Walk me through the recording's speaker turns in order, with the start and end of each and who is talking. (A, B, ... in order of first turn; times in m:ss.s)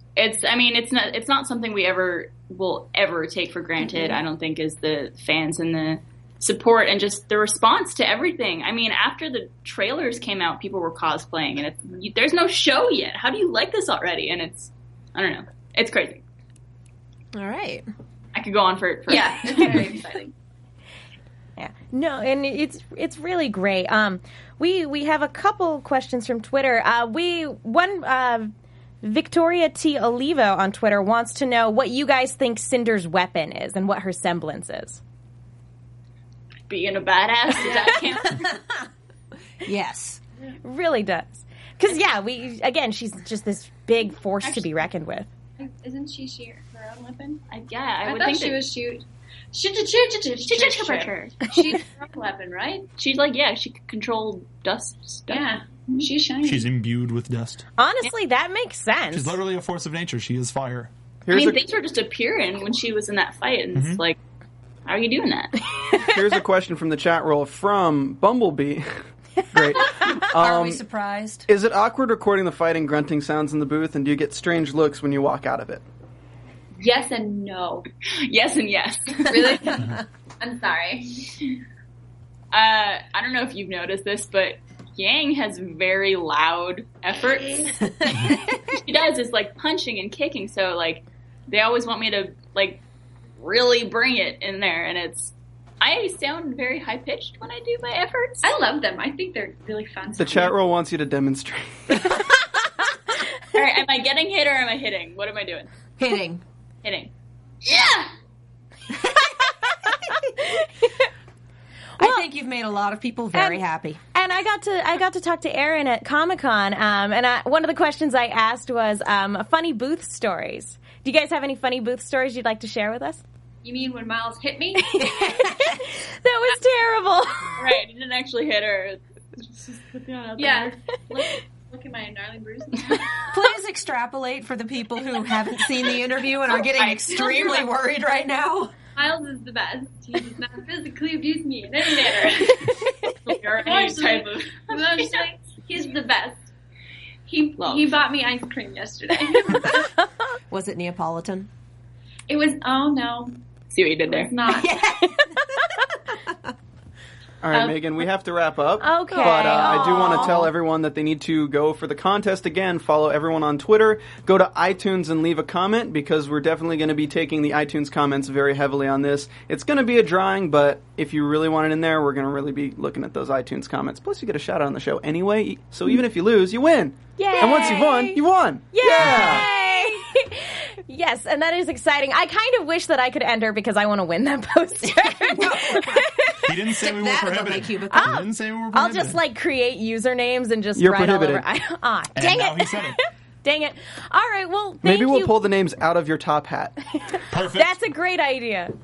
0:00.2-0:16.2 A
0:03.8-0:04.2 B
0:17.3-0:17.8 C
0:18.3-0:20.0 A
0:19.1-0:20.3 B
0:21.6-0:28.5 D
0:29.0-0:35.0 D
0:36.7-0:38.6 A
0:37.6-0:38.2 B
0:38.3-0:38.8 C
0:39.6-0:40.2 C
0:40.6-0:45.3 D
0:45.6-0:47.4 B
0:47.5-0:48.6 A
0:48.0-0:52.9 B
0:50.4-0:51.5 A
0:53.0-0:55.6 A
0:55.3-0:56.7 B
0:56.4-0:57.6 E
0:57.8-0:59.4 D
0:59.1-1:00.9 E
1:01.3-1:01.6 F
1:01.3-1:04.2 A
1:03.7-1:04.0 E
1:04.8-1:05.6 A
1:06.0-1:09.0 F
1:09.5-1:10.8 F
1:10.3-1:11.4 C
1:11.5-1:15.8 F
1:16.8-1:17.8 B
1:18.0-1:19.8 A
1:19.2-1:21.3 B
1:22.5-1:32.8 A
1:27.8-1:28.8 C
1:33.4-1:38.6 A
1:38.4-1:40.6 B
1:40.2-1:42.3 F
1:43.5-1:45.7 A
1:46.0-1:46.4 C
1:46.8-1:47.1 A
1:47.6-1:48.1 B
1:48.9-1:50.3 C
1:50.1-1:50.9 D
1:52.0-1:54.0 C
1:53.3-1:53.6 D
1:54.1-2:03.2 D
2:03.6-2:05.0 B
2:04.8-2:07.6 D
2:05.0-2:05.8 C
2:07.6-2:10.7 A
2:10.4-2:13.1 B
2:13.3-2:18.7 C
2:16.7-2:17.6 A
2:19.0-2:22.9 B
2:23.2-2:25.2 A
2:23.6-2:26.5 B
2:27.3-2:29.9 B
2:27.6-2:28.0 A
2:30.5-2:31.5 C
2:32.3-2:33.4 B
2:33.7-2:34.3 A
2:34.1-2:34.7 B
2:34.5-2:36.5 C
2:37.4-2:59.5 F
2:37.5-2:38.0 B
2:38.8-2:40.5 D
2:39.1-2:40.5 C
2:57.2-2:58.2 D
2:58.7-3:06.7 D
2:59.1-2:59.4 E
3:04.8-3:06.1 C
3:06.4-3:09.2 E
3:06.8-3:08.3 C
3:07.9-3:15.4 D
3:10.8-3:11.4 F
3:12.1-3:13.0 E
3:14.8-3:16.8 F
3:17.3-3:17.8 E
3:17.5-3:18.7 D